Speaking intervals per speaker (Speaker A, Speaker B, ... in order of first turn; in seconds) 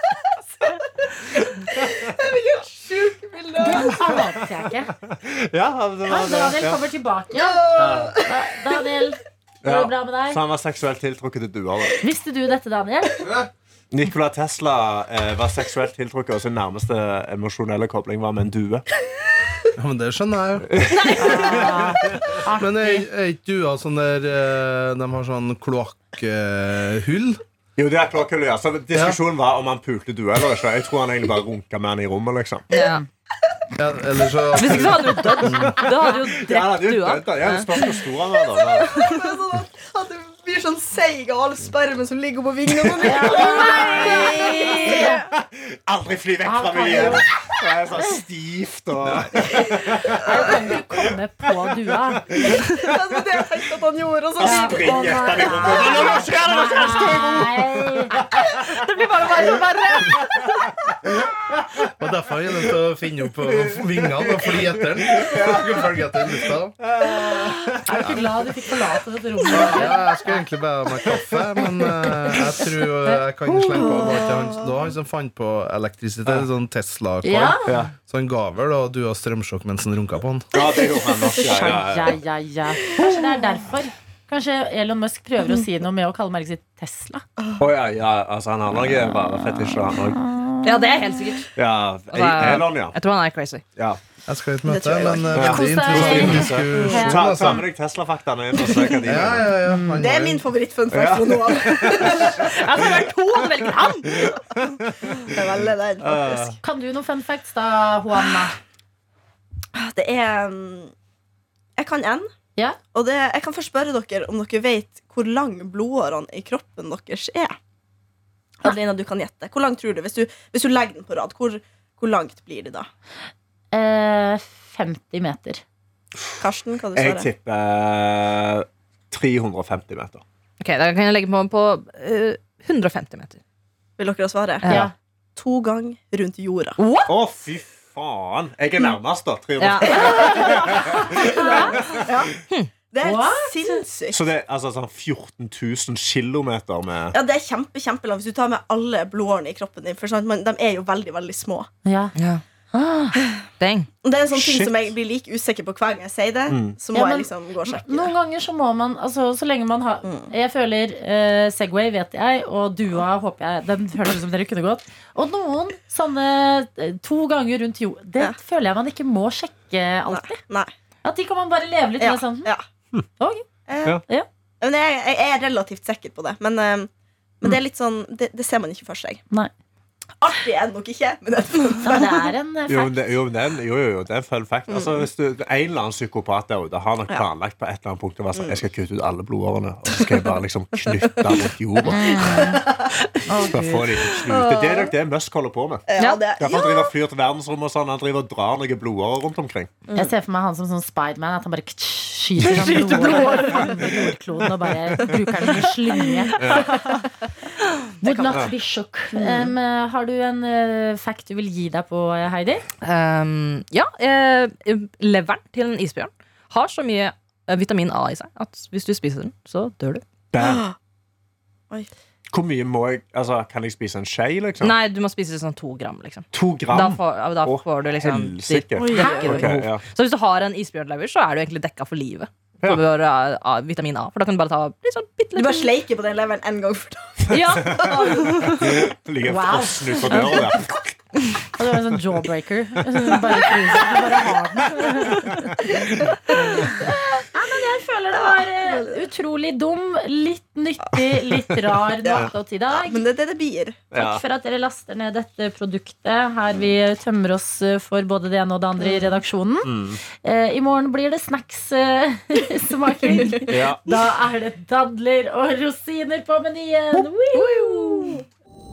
Speaker A: 0.6-4.0, 7.3-8.3, 38.8-45.2, 49.5-49.8, 52.4-56.3, 73.8-74.8, 80.5-81.8, 82.9-83.6, 94.7-95.5, 96.7-97.0, 100.0-102.6, 105.2-106.5, 109.8-110.9, 111.8-112.3, 112.9-117.6, 118.6-122.9, 126.4-127.3, 134.0-134.8, 135.4-136.8, 139.9-142.3, 142.9-144.2, 147.1-151.7, 154.0-158.1, 160.0-160.3, 170.1-170.7, 172.0-172.7, 173.7-174.0, 174.6-176.9, 177.4-179.2, 180.2-182.3, 184.7-185.1, 188.3-188.6, 191.1-191.5, 192.0-192.9, 194.3-194.9, 195.9-196.9, 208.0-208.5, 209.1-209.5, 220.4-220.8, 228.8-229.5, 235.3-238.6, 245.7-246.3, 248.1-249.0, 252.0-253.9, 258.8-259.2, 267.9-268.2
Speaker B: 1.4-2.1, 5.1-6.8, 7.8-8.2, 9.6-12.0, 13.9-18.9, 20.7-22.2, 27.8-32.7, 35.7-39.0, 43.1-44.4, 45.3-50.8, 51.9-52.9, 54.4-61.9, 63.7-68.4, 77.6-77.9, 80.5-82.2, 87.6-90.3, 91.5-93.0, 95.3-99.6, 100.9-102.6, 104.1-105.4, 106.0-106.6, 127.0-130.2, 137.1-142.4, 144.1-147.2, 154.3-154.9, 156.5-156.8, 182.7-192.5, 193.5-195.9, 196.4-199.7, 203.3-203.8, 206.4-206.8, 220.3-220.7, 222.3-224.8, 226.3-229.8, 237.3-241.0, 245.2-245.7, 253.9-254.2, 259.6-260.0, 263.5-263.8
Speaker C: 3.6-4.9, 6.0-7.7, 8.2-10.4, 12.0-13.3, 21.1-23.0, 43.0-45.2, 46.5-47.3, 50.2-52.3, 54.4-58.2, 67.8-70.4, 73.1-74.0, 77.2-77.7, 81.5-87.2, 95.5-97.5, 99.7-100.0, 106.6-108.6, 123.7-125.6, 134.7-134.9, 139.9-141.8, 143.0-143.8, 151.8-152.2, 152.7-153.1, 156.9-170.4, 171.0-172.5, 173.2-173.5, 181.8-183.0, 191.9-192.7, 193.3-193.9, 199.9-207.1, 208.0-212.6, 229.0-229.4, 239.2-240.4, 241.6-245.6, 246.3-253.0, 253.9-268.2
Speaker D: 19.8-21.1, 22.5-27.4, 28.9-29.2, 33.8-35.8, 62.0-66.8, 69.5-80.5, 94.3-97.6, 99.0-100.5
Speaker E: 32.7-33.0, 34.6-37.9, 38.9-39.3, 58.9-60.6, 90.6-91.5, 92.1-93.6, 102.4-104.3, 130.6-133.4, 134.6-134.9, 136.8-137.1, 139.6-140.3, 152.2-153.9, 202.4-203.8, 212.8-220.0, 224.6-235.7, 237.3-238.6